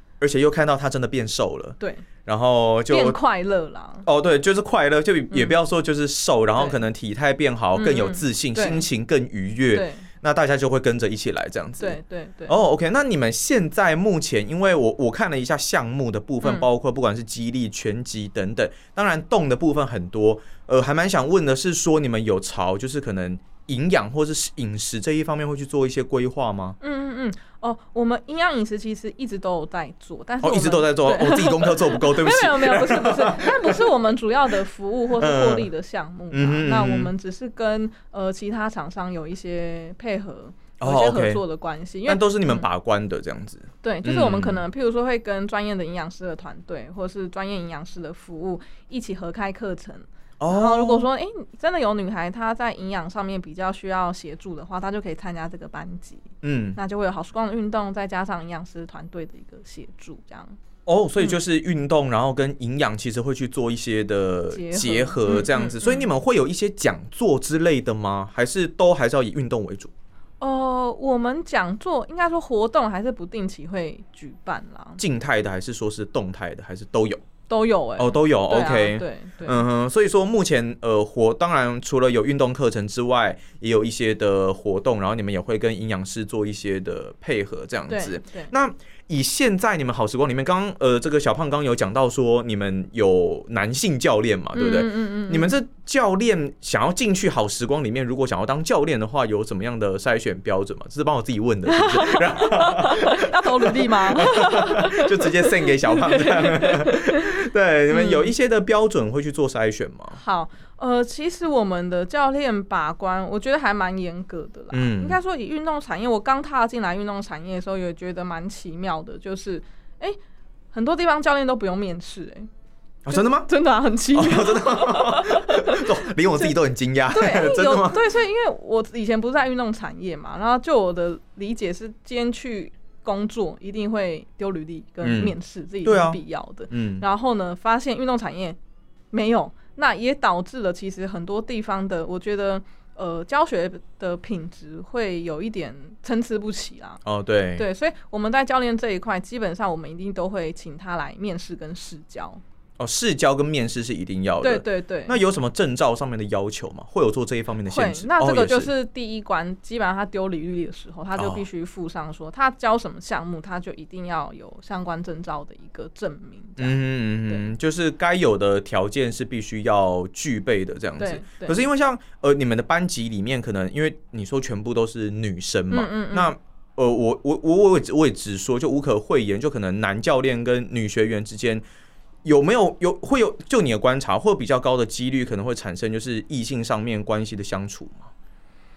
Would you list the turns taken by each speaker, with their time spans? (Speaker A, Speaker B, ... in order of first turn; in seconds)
Speaker A: 0.2-3.2, 4.0-26.8, 30.4-33.9, 35.2-35.7, 36.3-37.1, 40.8-41.4, 42.1-44.6, 50.4-51.1, 56.4-56.8, 60.9-69.9, 75.0-77.2, 78.0-110.2, 114.7-115.2, 123.0-123.5, 124.1-128.0, 135.0-137.0, 147.1-147.7, 152.8-158.7, 161.2-161.4, 166.6-181.6, 182.2-188.1
Speaker B: 1.8-2.0, 2.9-4.1, 5.3-5.6, 7.8-8.9, 9.7-10.1, 11.8-12.6, 26.8-42.7, 43.8-60.6, 64.5-66.1, 70.4-75.0, 77.5-79.7, 87.9-88.5, 94.5-95.6, 101.7-107.4, 107.9-108.3, 110.1-120.2, 120.7-122.5, 123.1-126.5, 127.1-138.6, 139.1-147.0, 147.6-152.4, 154.4-155.2, 157.7-167.5, 171.0-171.6, 175.7-176.3